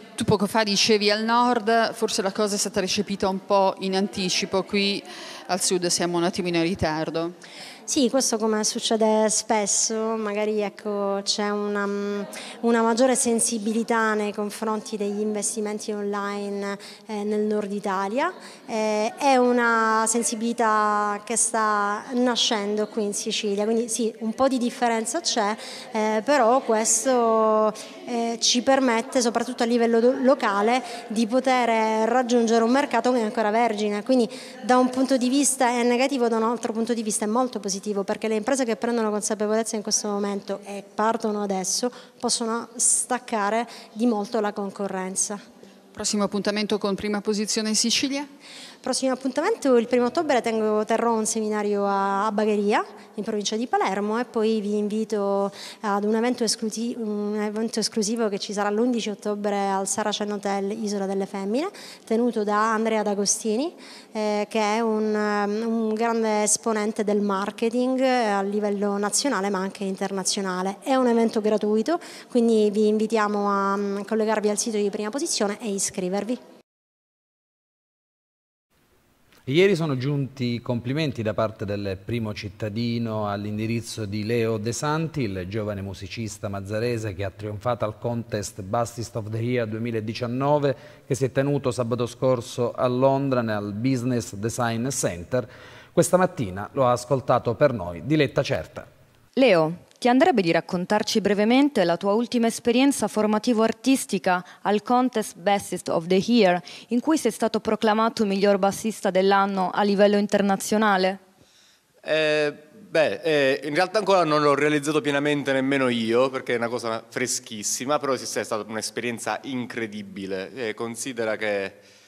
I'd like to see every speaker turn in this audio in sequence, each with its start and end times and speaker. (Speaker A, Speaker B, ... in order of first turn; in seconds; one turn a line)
Speaker A: 0.2-7.3
Speaker B: 7.9-45.4
Speaker A: 45.9-48.3
Speaker B: 48.8-76.4
Speaker C: 79.5-98.9
Speaker D: 99.4-111.2
Speaker E: 112.0-121.8